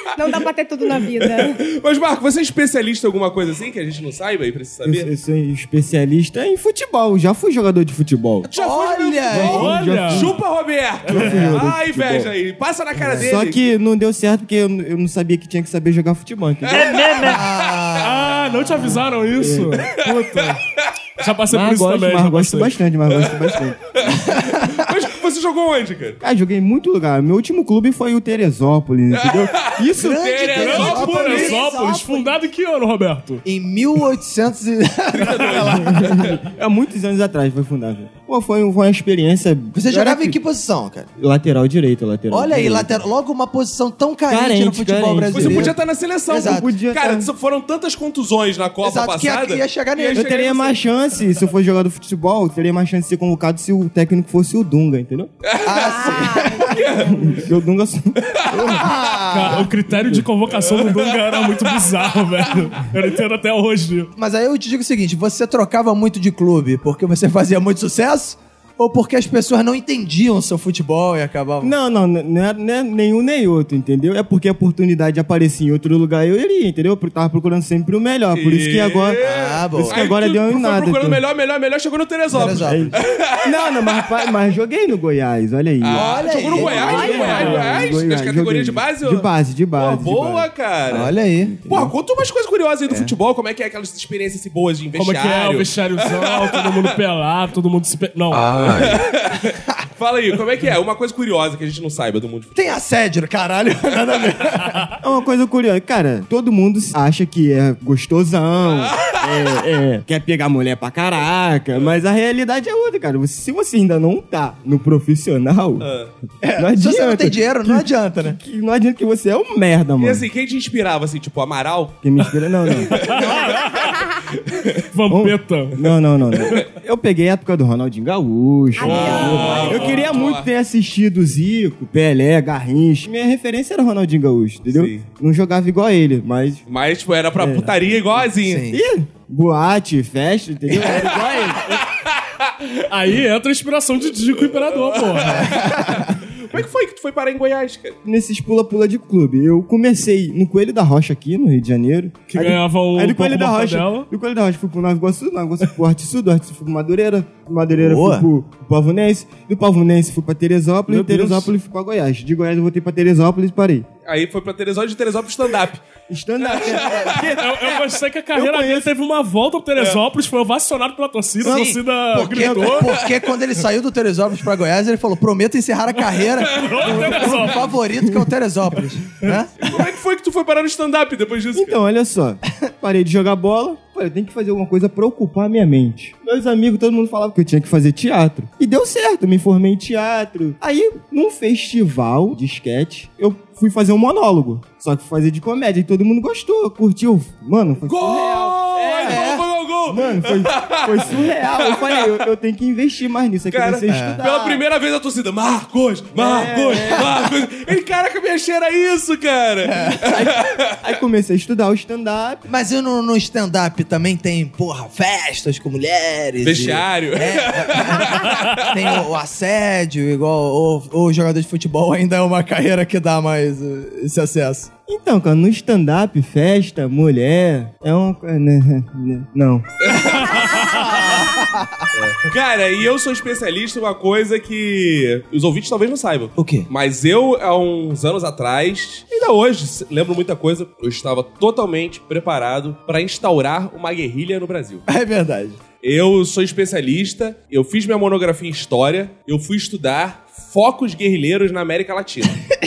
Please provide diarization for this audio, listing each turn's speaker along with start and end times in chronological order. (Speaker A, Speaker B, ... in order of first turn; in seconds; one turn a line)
Speaker A: 0.1-1.6
Speaker B: 1.2-5.1
Speaker C: 4.8-8.5
Speaker D: 8.5-9.8
Speaker B: 8.5-13.6
Speaker C: 9.3-10.4
Speaker E: 9.4-10.3
Speaker E: 11.1-11.3
Speaker C: 11.1-12.3
Speaker C: 13.0-17.4
Speaker E: 16.7-17.4
Speaker D: 17.2-18.6
Speaker E: 18.0-20.6
Speaker C: 18.7-20.1
Speaker B: 20.1-20.6
Speaker E: 21.2-22.8
Speaker C: 21.5-23.8
Speaker B: 23.1-26.2
Speaker D: 24.1-24.8
Speaker C: 26.2-30.7
Speaker B: 29.1-31.7
Speaker D: 30.0-32.3
Speaker E: 30.6-33.4
Speaker D: 33.4-36.4
Speaker B: 35.1-36.3
Speaker C: 35.8-40.4
Speaker D: 39.7-41.1
Speaker C: 41.2-43.0
Speaker D: 42.3-45.8
Speaker C: 44.3-45.7
Speaker B: 45.3-50.8
Speaker D: 46.3-46.7
Speaker C: 46.3-47.3
Speaker D: 48.8-50.3
Speaker C: 50.1-55.3
Speaker B: 55.4-57.4
Speaker D: 55.6-56.8
Speaker A: 55.8-56.8
Speaker C: 57.0-59.0
Speaker B: 58.4-58.8
Speaker D: 58.7-59.7
Speaker E: 59.3-64.1
Speaker C: 59.6-60.2
Speaker B: 60.5-62.6
Speaker D: 64.2-71.7
Speaker C: 71.6-79.2
Speaker B: 78.3-83.9
Speaker D: 79.2-80.0
Speaker C: 79.8-81.2
Speaker D: 82.3-83.0
Speaker C: 82.4-90.5
Speaker B: 85.8-91.1
Speaker D: 85.9-87.5
Speaker A: 86.8-87.6
Speaker D: 90.9-91.5
Speaker C: 91.4-91.9
Speaker B: 91.7-96.9
Speaker D: 92.9-93.1
Speaker E: 95.0-98.8
Speaker B: 98.5-102.7
Speaker D: 102.5-104.9
Speaker C: 105.0-115.9
Speaker B: 115.8-116.1
Speaker D: 116.4-118.4
Speaker C: 116.5-120.3
Speaker B: 120.0-123.8
Speaker C: 122.0-123.1
Speaker E: 123.0-123.9
Speaker B: 124.5-124.8
Speaker E: 124.9-125.8
Speaker C: 125.1-136.6
Speaker A: 128.8-130.0
Speaker B: 128.8-130.5
Speaker E: 128.9-130.0
Speaker B: 134.7-135.0
Speaker B: 136.7-138.7
Speaker C: 137.4-141.6
Speaker D: 138.4-138.8
Speaker B: 140.8-142.7
Speaker E: 141.1-141.6
Speaker E: 142.9-145.5
Speaker B: 144.5-148.0
Speaker D: 145.3-146.2
Speaker C: 148.0-163.9
Speaker E: 152.3-154.1
Speaker D: 157.8-158.2
Speaker B: 164.1-165.8
Speaker C: 166.1-167.7
Speaker B: 166.4-167.4
Speaker E: 167.3-172.9
Speaker C: 168.3-168.9
Speaker C: 171.4-171.8
Speaker D: 171.4-179.5
Speaker C: 172.3-172.8
Speaker B: 176.4-177.5
Speaker E: 176.5-177.7
Speaker C: 177.9-178.2
Speaker B: 179.6-181.8
Speaker C: 181.5-199.3
Speaker B: 197.8-202.1
Speaker D: 199.0-199.4
Speaker C: 199.8-204.6
Speaker B: 203.5-210.7
Speaker D: 203.9-204.3
Speaker C: 206.1-207.1
Speaker D: 206.8-207.1
Speaker D: 209.7-210.0
Speaker C: 210.1-212.4
Speaker D: 212.5-224.7
Speaker B: 216.4-218.9
Speaker C: 224.9-229.6
Speaker B: 229.8-230.8
Speaker D: 229.9-231.9
Speaker B: 231.9-244.8
Speaker D: 236.4-236.7
Speaker D: 244.9-245.6
Speaker B: 245.8-252.4